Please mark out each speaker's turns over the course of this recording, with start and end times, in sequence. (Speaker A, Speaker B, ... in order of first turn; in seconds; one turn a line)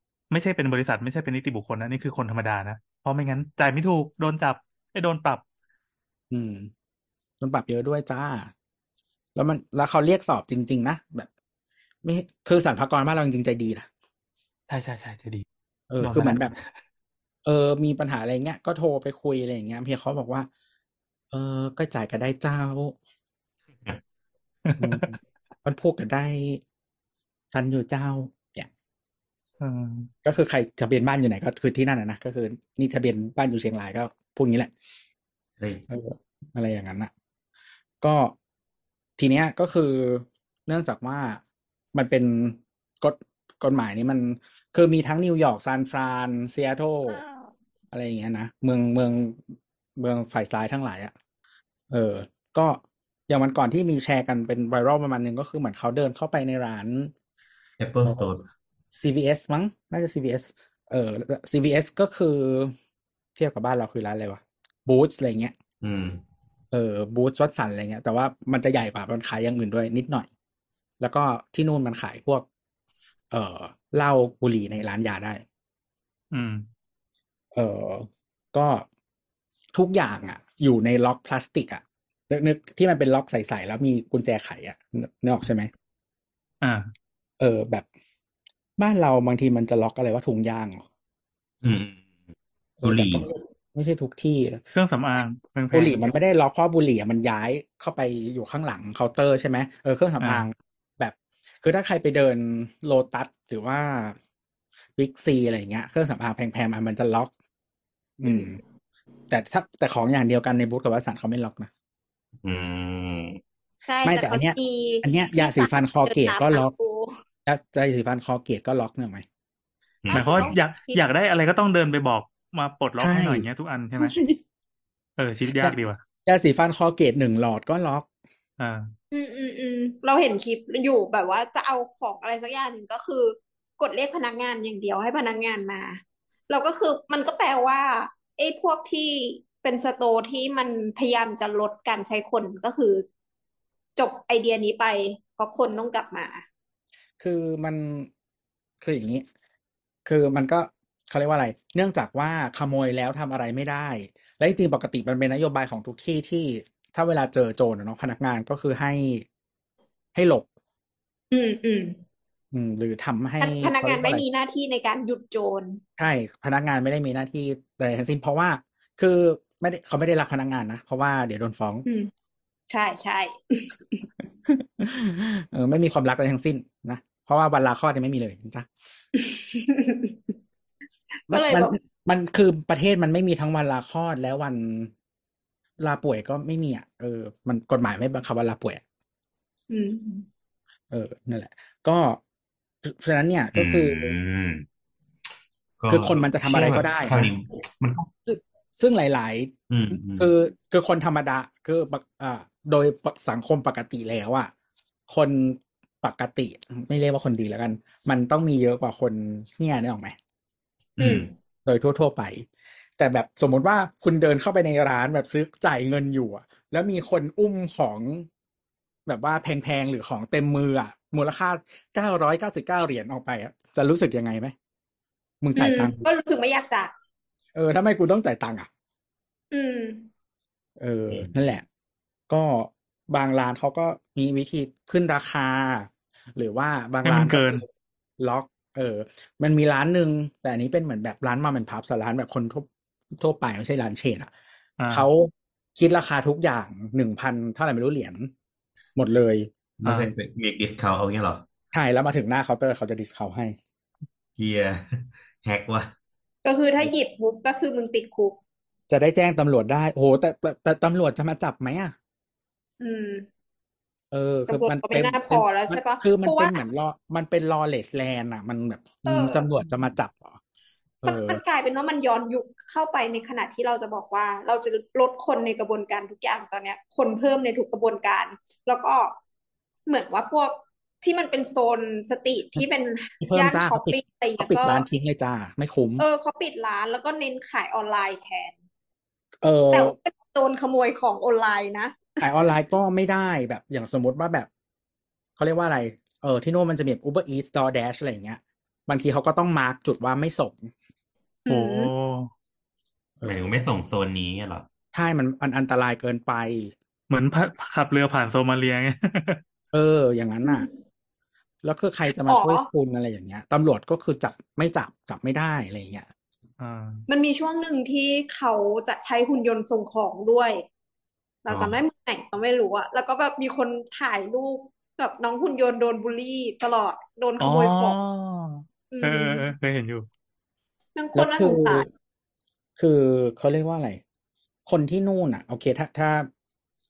Speaker A: 0.3-5.4
Speaker B: 6.3-6.7
Speaker B: 7.4-8.5
Speaker B: 9.3-11.3
Speaker B: 12.0-13.9
Speaker A: 14.7-15.4
Speaker B: 15.9-16.5
Speaker A: 16.0-16.7
Speaker B: 17.4-20.5
Speaker B: 21.3-23.0
Speaker A: 24.7-25.1
Speaker B: 24.8-26.6
Speaker B: 27.5-28.7
Speaker A: 29.6-30.1
Speaker B: 30.2-34.7
Speaker B: 35.9-37.1
Speaker B: 38.0-38.3
Speaker B: 39.2-41.4
Speaker B: 41.9-47.2
Speaker B: 47.9-49.4
Speaker B: 50.0-51.1
Speaker B: 51.9-57.1
Speaker C: 57.8-58.4
Speaker B: 58.0-58.3
Speaker B: 58.9-62.7
Speaker B: 63.4-65.5
Speaker C: 65.8-66.2
Speaker B: 66.7-70.3
Speaker B: 71.0-72.5
Speaker B: 73.3-75.4
Speaker A: 76.3-76.7
Speaker B: 77.5-78.8
Speaker B: 79.7-85.7
Speaker A: 86.6-86.9
Speaker B: 87.4-87.8
Speaker B: 88.8-90.8
Speaker C: 91.6-92.0
Speaker B: 92.8-94.6
Speaker C: 92.8-93.3
Speaker A: 94.7-96.0
Speaker B: 95.7-104.2
Speaker B: 105.0-107.3
Speaker B: 108.2-108.6
Speaker D: 108.2-108.5
Speaker B: 109.3-111.7
Speaker C: 112.4-113.4
Speaker D: 113.8-117.1
Speaker B: 114.0-116.7
Speaker B: 117.5-119.2
Speaker C: 120.0-120.5
Speaker D: 120.1-121.0
Speaker A: 120.1-124.1
Speaker B: 123.0-123.5
Speaker B: 124.0-124.4
Speaker A: 125.2-126.0
Speaker B: 125.5-128.1
Speaker A: 128.6-128.9
Speaker D: 129.1-143.0
Speaker D: 143.9-146.4
Speaker B: 147.2-148.1
Speaker B: 148.8-149.2
Speaker B: 150.1-159.2
Speaker B: 160.1-160.4
Speaker D: 161.3-162.0
Speaker B: 162.5-164.2
Speaker D: 163.4-165.8
Speaker B: 166.0-171.8
Speaker D: 171.8-172.1
Speaker D: 172.7-174.0
Speaker B: 174.4-178.7
Speaker D: 179.2-180.2
Speaker D: 181.3-181.7
Speaker B: 181.3-184.9
Speaker B: 185.8-188.8
Speaker D: 189.7-190.3
Speaker B: 190.9-192.2
Speaker B: 192.8-194.1
Speaker C: 193.5-194.6
Speaker C: 195.8-198.1
Speaker B: 195.9-197.3
Speaker B: 198.2-204.5
Speaker C: 199.7-200.3
Speaker B: 205.1-210.2
Speaker C: 211.0-211.3
Speaker D: 211.0-211.3
Speaker B: 211.7-212.5
Speaker B: 213.0-218.3
Speaker B: 219.1-224.5
Speaker B: 225.4-226.1
Speaker D: 225.6-226.9
Speaker B: 227.5-228.7
Speaker D: 229.5-230.1
Speaker B: 230.8-231.6
Speaker B: 232.3-237.7
Speaker A: 237.0-237.6
Speaker B: 238.2-244.3
Speaker A: 244.8-245.1
Speaker B: 244.9-248.3
Speaker B: 248.9-249.5
Speaker C: 249.8-251.4
Speaker A: 249.8-250.1
Speaker B: 251.7-253.6
Speaker C: 254.4-255.9
Speaker D: 256.4-258.4
Speaker B: 258.9-261.9
Speaker D: 262.8-263.2
Speaker B: 264.1-270.4
Speaker D: 264.5-266.6
Speaker D: 269.1-269.4
Speaker B: 271.0-271.4
Speaker D: 271.1-279.1
Speaker D: 279.9-284.8
Speaker B: 283.2-286.0
Speaker D: 286.0-288.5
Speaker B: 289.4-289.9
Speaker D: 289.7-292.2
Speaker B: 292.2-294.5
Speaker B: 295.4-300.7
Speaker D: 301.4-301.9
Speaker A: 301.5-302.3
Speaker B: 303.2-303.5
Speaker C: 303.2-304.7
Speaker B: 304.9-306.7
Speaker A: 307.1-309.4
Speaker B: 309.7-310.7
Speaker D: 310.4-310.7
Speaker B: 311.6-316.1
Speaker D: 312.2-312.7
Speaker A: 316.6-317.0
Speaker D: 317.1-320.6
Speaker D: 321.4-328.0
Speaker C: 321.5-321.8
Speaker A: 327.4-330.1
Speaker D: 328.9-329.5
Speaker D: 330.9-331.9
Speaker B: 331.1-331.9
Speaker B: 332.8-334.0
Speaker B: 334.6-336.3